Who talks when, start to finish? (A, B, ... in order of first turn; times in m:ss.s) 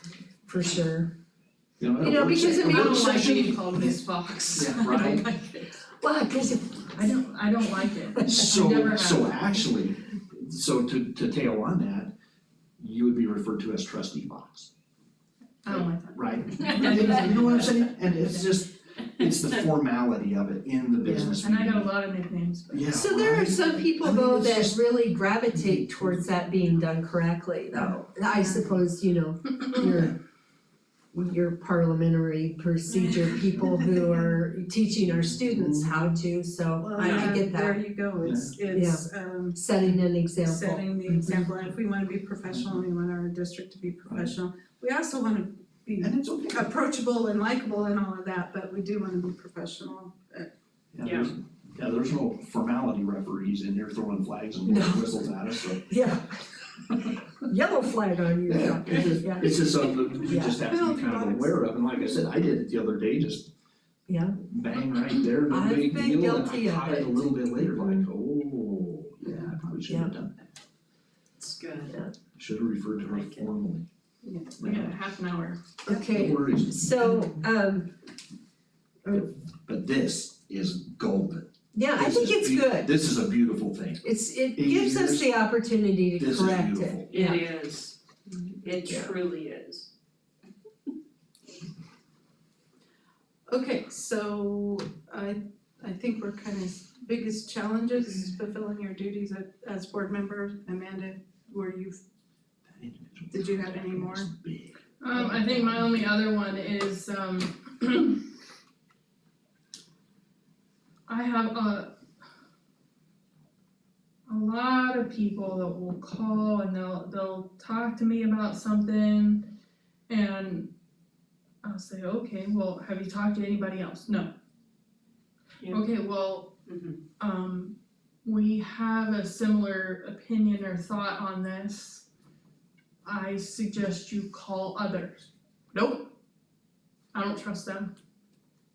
0:00.5-0:01.1 A
0:01.8-0:03.9 B
0:02.0-0:03.6 A
0:02.3-0:05.6 C
0:04.5-0:05.2 B
0:06.0-0:08.4 A
0:07.0-0:09.6 C
0:08.2-0:12.1 B
0:12.8-0:14.7 B
0:15.6-0:18.6 C
0:15.7-0:21.9 B
0:16.7-0:17.0 D
0:21.0-0:21.3 A
0:21.2-0:22.9 C
0:22.7-0:24.8 B
0:22.8-0:30.2 A
0:25.5-0:26.4 B
0:27.7-0:28.0 B
0:28.4-0:28.8 E
0:31.1-0:37.8 A
0:32.9-0:34.2 C
0:33.4-0:33.8 B
0:35.2-0:35.9 B
0:36.8-0:39.6 E
0:38.2-0:38.5 B
0:38.7-0:41.1 A
0:40.4-0:50.5 E
0:44.1-0:44.3 B
0:46.0-0:46.7 B
0:50.9-0:55.9 B
0:51.0-0:51.3 D
0:54.6-0:56.3 A
0:57.4-0:59.6 A
0:58.5-1:03.5 B
1:00.2-1:01.7 E
1:00.2-1:00.6 A
1:04.1-1:04.4 A
1:04.4-1:10.5 B
1:05.5-1:08.0 A
1:09.9-1:10.1 A
1:11.4-1:12.0 D
1:12.4-1:13.8 B
1:13.0-1:13.5 D
1:14.2-1:15.8 C
1:14.6-1:14.9 B
1:15.8-1:17.9 A
1:16.0-1:17.3 B
1:19.1-1:24.0 B
1:21.7-1:22.9 A
1:24.0-1:27.4 A
1:24.6-1:25.4 B
1:26.2-1:27.0 B
1:27.1-1:28.0 D
1:28.6-1:29.9 D
1:28.7-1:29.1 A
1:33.5-1:42.0 E
1:42.7-1:44.7 B
1:43.3-1:44.3 E
1:45.0-1:48.2 C
1:45.1-1:45.8 E
1:51.1-1:51.9 C
1:54.3-1:59.5 C
2:00.1-2:00.7 C
2:01.6-2:04.3 C
2:05.6-2:05.9 D
2:05.7-2:06.5 C
2:06.7-2:07.0 D
2:07.2-2:12.0 C
2:13.0-2:16.1 C
2:17.1-2:17.9 C